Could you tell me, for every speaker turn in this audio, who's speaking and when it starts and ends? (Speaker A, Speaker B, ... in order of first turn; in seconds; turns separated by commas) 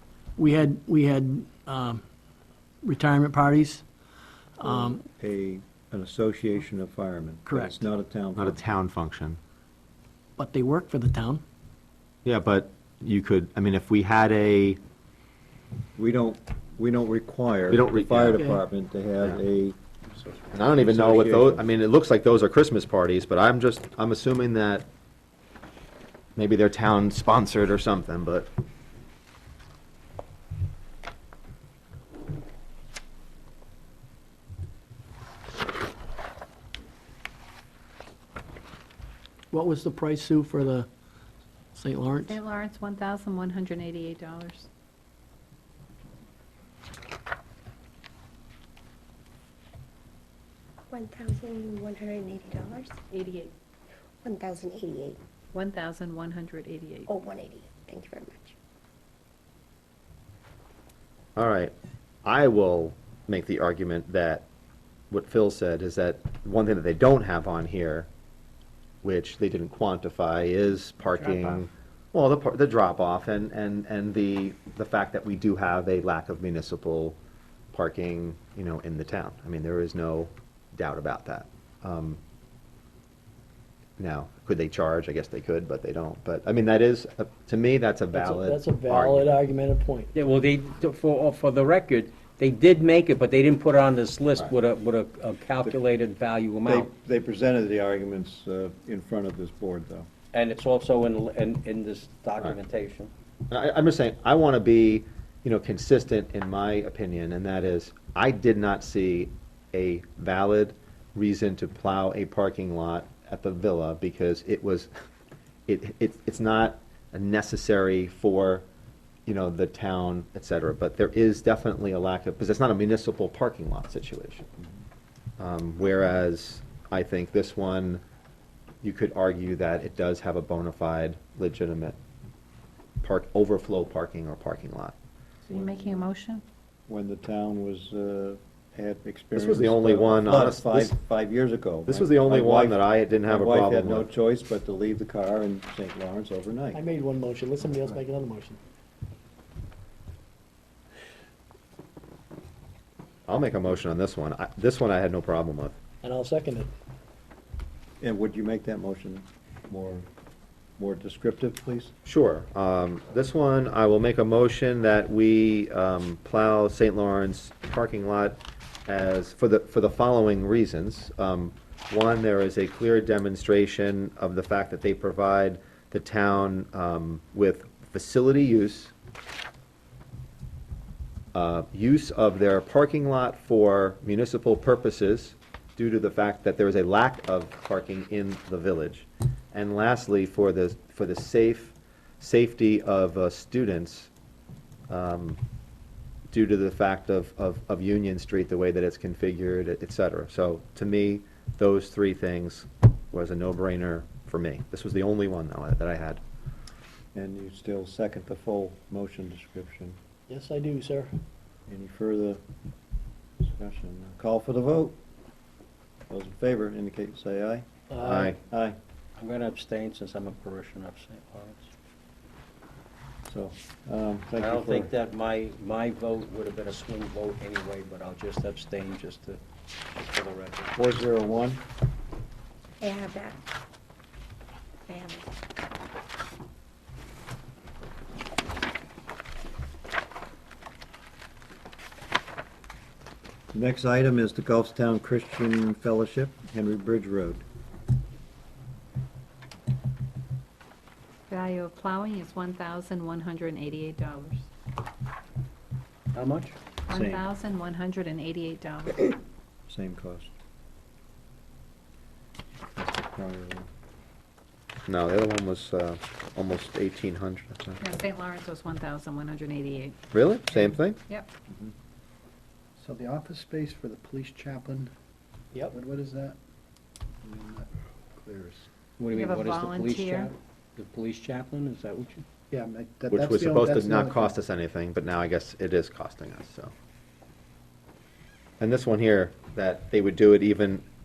Speaker A: 0.4-2.0, Speaker A: 2.8-3.8, Speaker A: 4.6-5.0, Speaker B: 5.2-8.6, Speaker A: 7.5-7.8, Speaker C: 8.3-9.4, Speaker A: 10.4-11.4, Speaker C: 12.2-14.8, Speaker B: 16.0-19.8, Speaker C: 17.7-18.6, Speaker A: 18.3-18.6, Speaker C: 20.5-24.9, Speaker B: 20.8-21.6, Speaker C: 26.4-28.5, Speaker A: 39.5-40.9, Speaker A: 41.7-42.4, Speaker D: 42.2-44.7, Speaker E: 50.9-53.0, Speaker D: 53.1-53.5, Speaker E: 54.2-55.2, Speaker D: 55.5-57.1, Speaker E: 57.1-58.5, Speaker C: 61.4-61.7, Speaker C: 62.2-64.5, Speaker C: 65.1-68.1, Speaker C: 69.0-77.2, Speaker F: 71.1-71.6, Speaker C: 77.7-82.2, Speaker C: 84.0-89.4, Speaker A: 88.1-90.1, Speaker F: 90.1-96.9, Speaker B: 96.6-100.1, Speaker F: 100.3-103.1, Speaker C: 103.5-114.9, Speaker C: 115.7-118.6, Speaker C: 119.2-124.5, Speaker C: 125.4-128.0, Speaker C: 128.8-132.0, Speaker C: 133.0-134.9, Speaker D: 135.4-136.4, Speaker B: 135.5-136.0, Speaker B: 136.9-146.8, Speaker C: 139.3-140.9, Speaker C: 141.9-144.1, Speaker A: 146.7-148.6, Speaker C: 153.3-155.8, Speaker A: 156.0-156.7, Speaker B: 158.0-160.1, Speaker B: 160.8-161.9, Speaker C: 162.0-178.9, Speaker C: 181.3-194.1, Speaker C: 194.9-195.4, Speaker C: 196.3-206.2, Speaker B: 207.1-210.0, Speaker A: 210.3-211.1, Speaker B: 211.7-212.4, Speaker B: 213.4-214.9, Speaker B: 216.1-217.7, Speaker A: 217.9-218.3, Speaker C: 218.0-218.4, Speaker B: 218.4-218.8, Speaker F: 219.2-221.7, Speaker B: 223.3-224.9, Speaker F: 224.3-229.4, Speaker F: 229.9-230.7, Speaker B: 230.7-231.6, Speaker E: 232.8-233.4, Speaker E: 234.9-235.3, Speaker B: 243.5-247.4, Speaker D: 251.3-254.5, Speaker F: 256.1-256.6, Speaker D: 256.9-259.2, Speaker B: 256.9-257.2, Speaker B: 259.7-260.3, Speaker B: 262.8-263.7, Speaker C: 264.9-267.8, Speaker D: 267.8-270.0, Speaker C: 270.1-271.0, Speaker D: 270.6-271.3, Speaker G: 272.8-274.9, Speaker G: 275.6-276.4, Speaker G: 277.2-278.7, Speaker F: 279.0-282.2, Speaker D: 279.1-280.3, Speaker G: 282.5-284.3, Speaker C: 283.1-286.7, Speaker C: 288.6-290.8